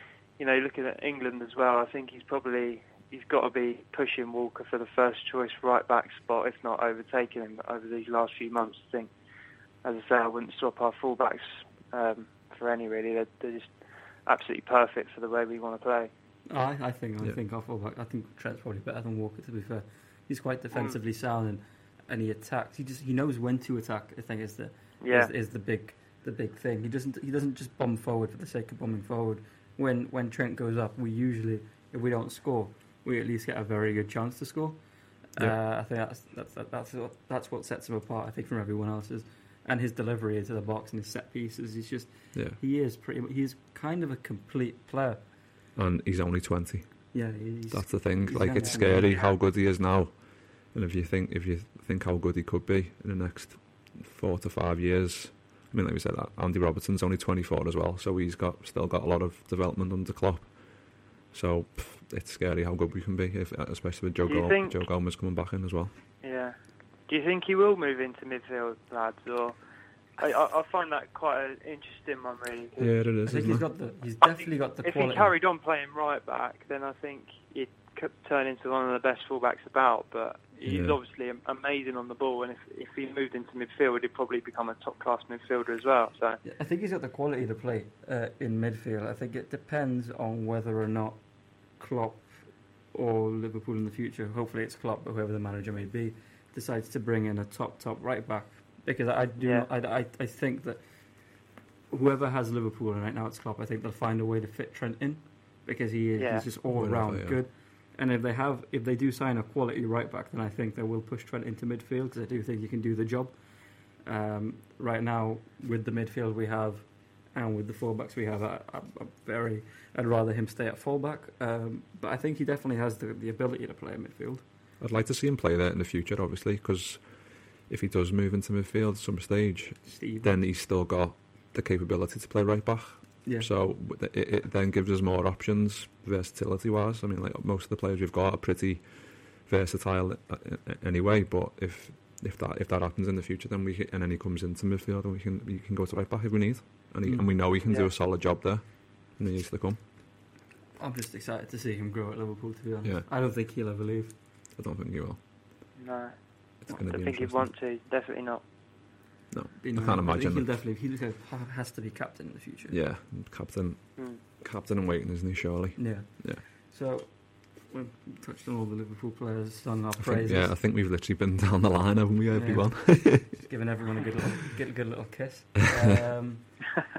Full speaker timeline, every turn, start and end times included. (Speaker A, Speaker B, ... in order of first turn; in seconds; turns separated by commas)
Speaker A: 0.4-9.1, Speaker A: 9.8-13.7, Speaker A: 14.2-16.1, Speaker B: 16.5-45.2, Speaker A: 25.0-25.3, Speaker C: 45.8-65.9, Speaker B: 47.1-49.1, Speaker A: 48.6-49.4, Speaker A: 64.2-64.8, Speaker A: 66.2-66.5, Speaker A: 67.1-69.5, Speaker A: 70.2-72.9, Speaker C: 72.8-73.7, Speaker B: 73.2-75.3, Speaker A: 74.8-86.4, Speaker C: 80.7-81.0, Speaker B: 86.4-101.0, Speaker A: 99.4-99.7, Speaker B: 101.9-113.5, Speaker A: 106.2-106.5, Speaker C: 106.7-107.4, Speaker B: 114.0-124.4, Speaker C: 124.8-149.8, Speaker B: 129.9-130.3, Speaker B: 133.2-133.5, Speaker B: 147.0-147.4, Speaker A: 147.7-147.9, Speaker B: 150.8-154.2, Speaker C: 154.5-155.2, Speaker A: 155.8-158.4, Speaker C: 156.7-157.5, Speaker C: 159.3-160.5, Speaker B: 159.6-162.8, Speaker C: 162.7-166.4, Speaker B: 165.8-170.6, Speaker C: 170.0-173.4, Speaker B: 172.3-176.7